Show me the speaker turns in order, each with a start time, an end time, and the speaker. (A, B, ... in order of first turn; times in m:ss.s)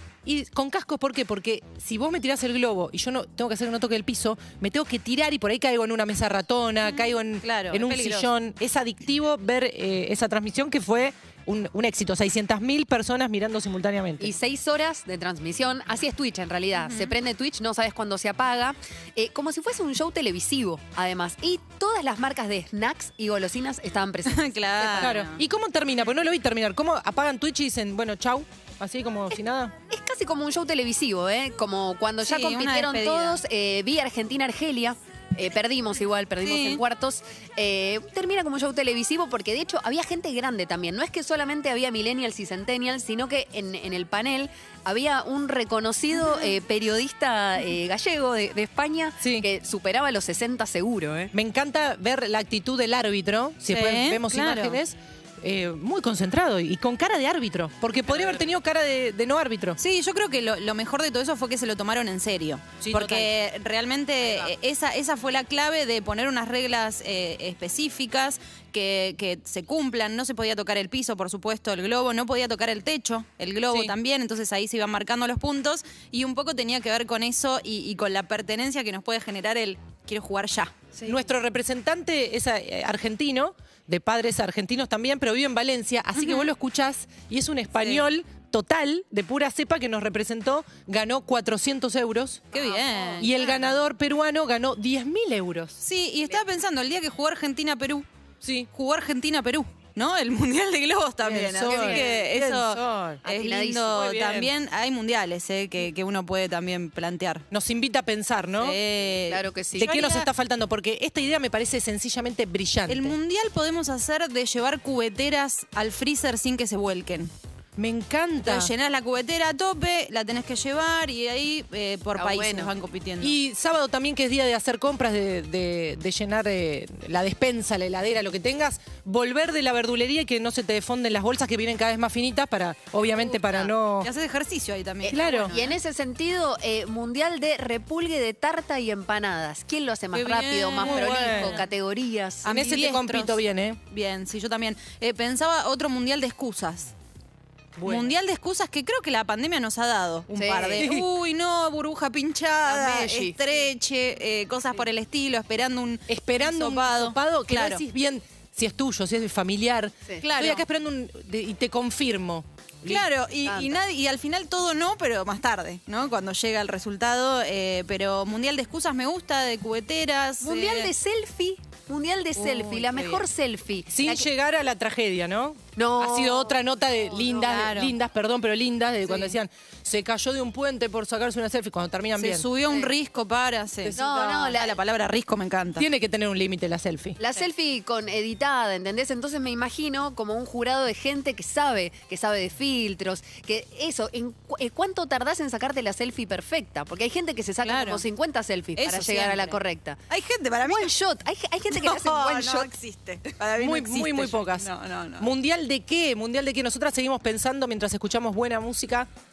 0:00.2-0:14.3 A
0:06.8-0:08.3 B
0:14.2-0:25.1 C
0:16.8-0:17.2 B
0:24.2-0:25.4 B
0:25.0-0:29.7 A
0:29.9-0:51.3 C
0:32.2-0:33.4 B
0:36.4-0:36.8 B
0:46.1-0:46.6 B
0:49.2-0:49.5 A
0:51.3-0:59.8 A
0:53.7-0:54.8 B
0:58.1-0:58.5 B
0:59.8-1:21.3 B
1:02.8-1:03.4 A
1:21.0-1:32.5 A
1:26.2-1:26.5 B
1:27.8-1:28.1 B
1:32.5-1:33.8 B
1:32.6-1:33.2 C
1:33.2-1:35.8 A
1:35.8-1:38.1 B
1:38.4-1:38.7 A
1:38.7-1:47.4 B
1:41.2-1:43.3 A
1:41.7-1:42.3 C
1:43.2-1:43.9 C
1:43.9-1:44.5 A
1:47.5-1:48.8 A
1:48.6-1:50.3 B
1:49.3-1:49.9 C
1:49.8-1:53.2 A
1:52.9-1:57.3 B
1:57.8-1:58.7 A
1:58.4-2:03.4 B
2:02.2-2:02.7 C
2:03.2-2:14.1 A
2:13.4-2:13.7 C
2:14.0-2:15.8 B
2:15.0-2:22.7 C
2:15.1-2:15.6 A
2:20.1-2:21.7 B
2:20.8-2:21.6 A
2:22.4-2:23.8 A
2:22.5-2:26.9 B
2:27.8-2:28.1 A
2:27.8-2:37.8 B
2:30.4-2:30.9 C
2:30.8-2:31.1 A
2:32.7-2:33.6 C
2:36.1-2:43.1 A
2:40.2-2:40.6 B
2:42.8-2:50.9 B
2:43.4-2:43.8 C
2:50.4-2:54.3 C
2:52.4-2:53.2 B
2:53.9-3:02.5 A
2:55.8-2:57.5 C
2:57.4-2:58.0 B
2:59.1-2:59.4 B
3:02.2-3:05.9 B
3:02.7-3:02.9 C
3:03.8-3:04.6 A
3:03.9-3:04.8 C
3:05.8-3:07.2 A
3:07.2-3:20.0 C
3:17.6-3:18.0 B
3:18.8-3:20.9 B
3:20.6-3:22.8 C
3:21.7-3:25.3 B
3:23.6-3:29.1 A